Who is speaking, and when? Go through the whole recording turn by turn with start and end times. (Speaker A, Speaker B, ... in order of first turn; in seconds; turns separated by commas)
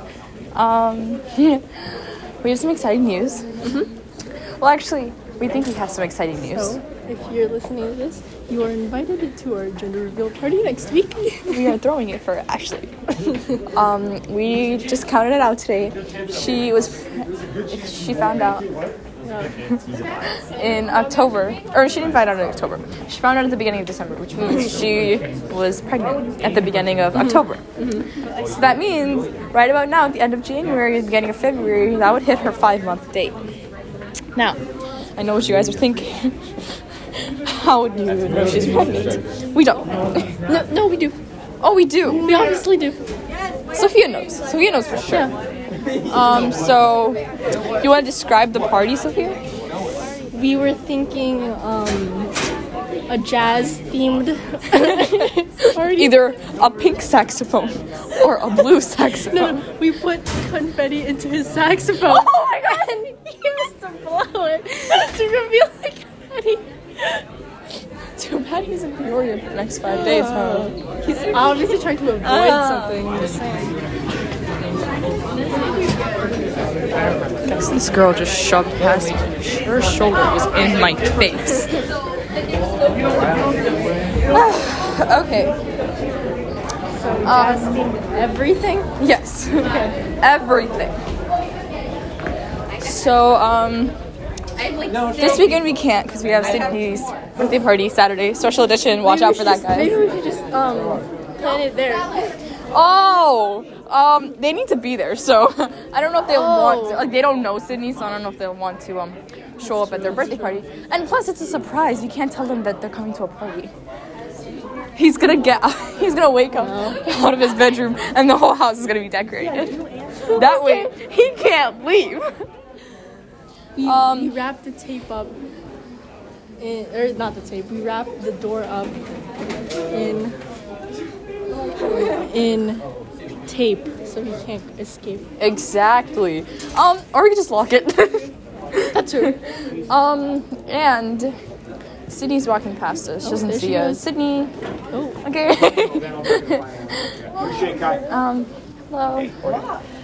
Speaker A: 0.5-1.6, Speaker A: 2.4-3.4, Speaker A: 4.6-6.8, Speaker B: 6.5-11.7, Speaker A: 11.5-13.1, Speaker A: 13.7-18.7, Speaker B: 19.2-19.6, Speaker A: 20.6-27.6, Speaker B: 27.8-28.1, Speaker A: 28.5-33.4, Speaker A: 35.2-36.4, Speaker A: 37.2-40.3, Speaker B: 40.5-41.2, Speaker A: 41.6-42.3, Speaker B: 42.2-43.0, Speaker A: 43.7-45.3, Speaker B: 45.1-45.3, Speaker A: 46.1-47.2, Speaker A: 47.8-49.4, Speaker B: 50.3-52.3, Speaker B: 53.1-56.2, Speaker A: 54.8-59.6, Speaker B: 59.2-67.2, Speaker A: 62.0-63.1, Speaker A: 68.2-71.2, Speaker B: 69.8-73.8, Speaker A: 72.2-73.1, Speaker A: 77.5-81.8, Speaker A: 84.3-85.5, Speaker B: 87.0-88.9, Speaker A: 87.2-87.8, Speaker A: 89.0-91.0, Speaker A: 92.8-94.0, Speaker A: 95.1-100.0, Speaker B: 99.0-102.3, Speaker A: 102.7-113.7, Speaker B: 106.3-107.1, Speaker B: 109.8-110.3, Speaker A: 115.0-122.2, Speaker B: 116.6-117.0, Speaker B: 120.3-120.9, Speaker B: 123.8-125.3, Speaker A: 123.8-124.4, Speaker B: 126.6-129.0, Speaker B: 129.9-130.3, Speaker B: 131.9-132.8, Speaker B: 133.5-135.3, Speaker A: 135.4-141.3, Speaker B: 138.9-139.4, Speaker A: 142.1-144.5, Speaker B: 143.2-144.0, Speaker B: 144.9-145.2, Speaker A: 145.2-146.7, Speaker A: 148.1-149.6